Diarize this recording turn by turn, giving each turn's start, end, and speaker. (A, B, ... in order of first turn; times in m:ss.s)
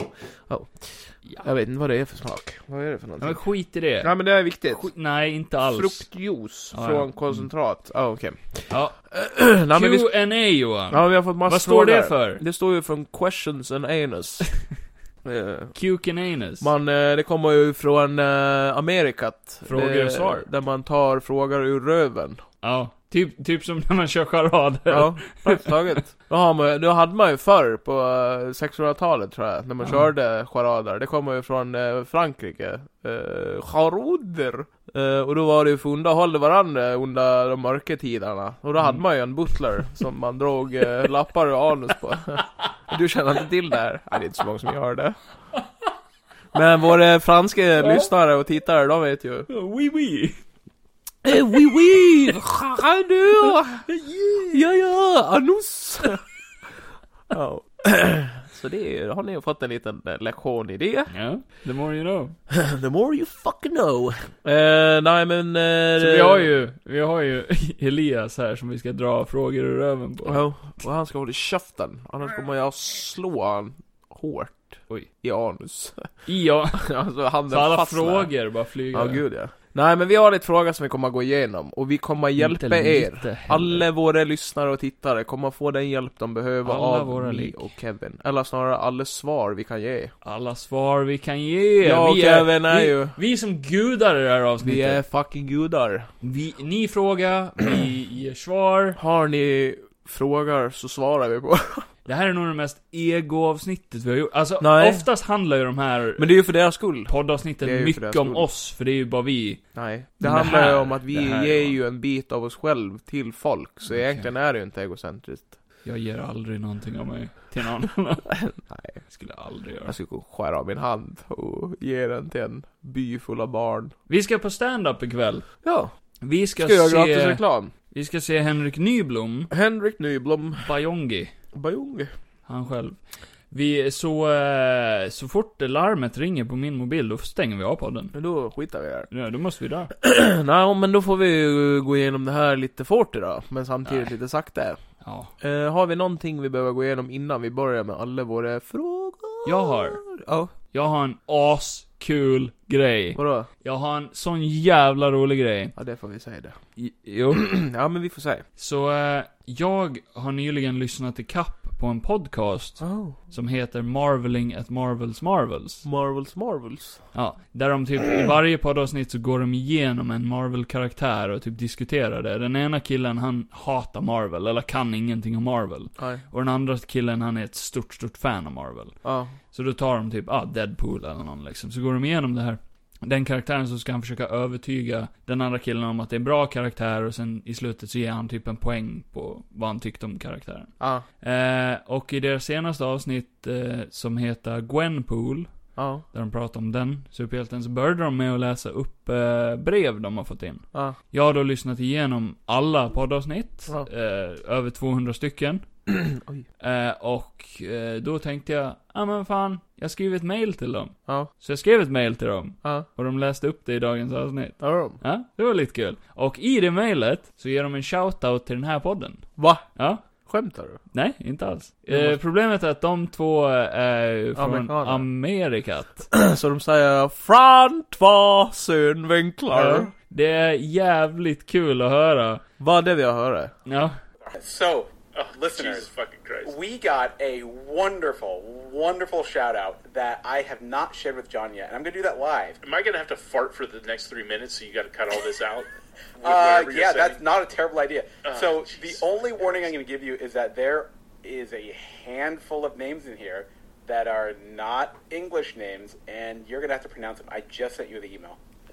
0:00.2-0:03.4 A
0:03.2-0:04.1 B
0:04.0-0:04.9 A
0:04.7-0:06.0 B
0:05.6-0:10.1 A
0:06.7-0:07.5 B
0:08.7-0:09.0 B
0:09.6-0:12.4 B
0:10.9-0:14.6 A
0:15.2-0:15.7 A
0:15.7-0:16.7 B
0:16.6-0:22.4 A
0:19.6-0:20.4 B
0:22.6-0:26.0 B
0:24.9-0:45.2 A
0:29.8-0:30.1 B
0:46.5-0:49.5 A
0:47.8-0:48.1 B
0:49.5-0:50.4 B
0:51.2-0:53.9 A
0:53.4-0:54.6 B
0:54.4-0:56.2 A
0:57.3-1:01.1 A
1:01.1-1:02.4 B
1:02.5-1:06.5 A
1:06.0-1:10.4 B
1:10.2-1:16.1 A
1:16.2-1:16.9 B
1:16.7-1:18.3 A
1:17.5-1:19.2 B
1:18.9-1:30.1 A
1:22.4-1:23.9 B
1:26.6-1:27.7 B
1:30.2-1:35.0 B
1:31.8-1:33.2 A
1:34.6-1:36.1 A
1:36.2-1:39.0 B
1:39.0-1:41.9 A
1:42.0-1:46.3 B
1:44.6-1:45.1 A
1:46.2-1:48.5 A
1:47.1-1:49.6 B
1:49.7-1:55.6 A
1:50.2-1:51.8 B
1:53.9-1:54.3 B
1:55.8-1:58.3 B
1:58.3-1:59.0 A
1:59.0-1:59.9 B
1:59.8-2:03.9 A
2:04.1-2:05.5 B
2:05.6-2:05.9 A
2:06.2-2:09.5 B
2:06.6-2:07.7 A
2:09.5-2:10.7 A
2:10.6-2:11.3 B
2:11.5-2:12.1 A
2:12.4-2:18.1 B
2:18.1-2:19.1 A
2:19.1-2:19.9 B
2:20.0-2:24.8 A
2:23.8-2:24.1 B
2:25.0-2:25.3 B
2:25.4-2:30.5 A
2:29.4-2:30.0 B
2:30.7-2:35.7 B
2:33.1-2:33.5 A
2:35.8-2:36.6 A
2:36.8-2:37.4 B
2:37.3-2:38.4 A
2:38.6-2:45.8 B
2:42.8-2:43.2 A
2:45.8-2:47.0 A
2:47.1-2:59.0 B
2:56.0-2:56.2 A
2:59.0-2:59.4 A
2:59.5-3:25.7 B
3:10.8-3:11.0 A
3:15.8-3:16.0 A
3:20.7-3:21.0 A
3:26.0-3:26.4 A
3:26.6-3:40.0 B
3:34.6-3:35.0 A
3:39.4-3:40.8 A
3:40.9-3:46.1 B
3:41.9-3:42.2 A
3:44.4-3:45.0 A
3:46.1-3:49.9 A
3:49.5-3:52.4 B
3:52.6-3:53.5 A
3:53.6-3:54.0 B
3:54.3-3:55.9 C
3:55.1-3:56.5 D
3:56.4-4:02.6 C
4:02.6-4:07.2 D
4:06.2-4:18.4 C
4:08.2-4:09.7 D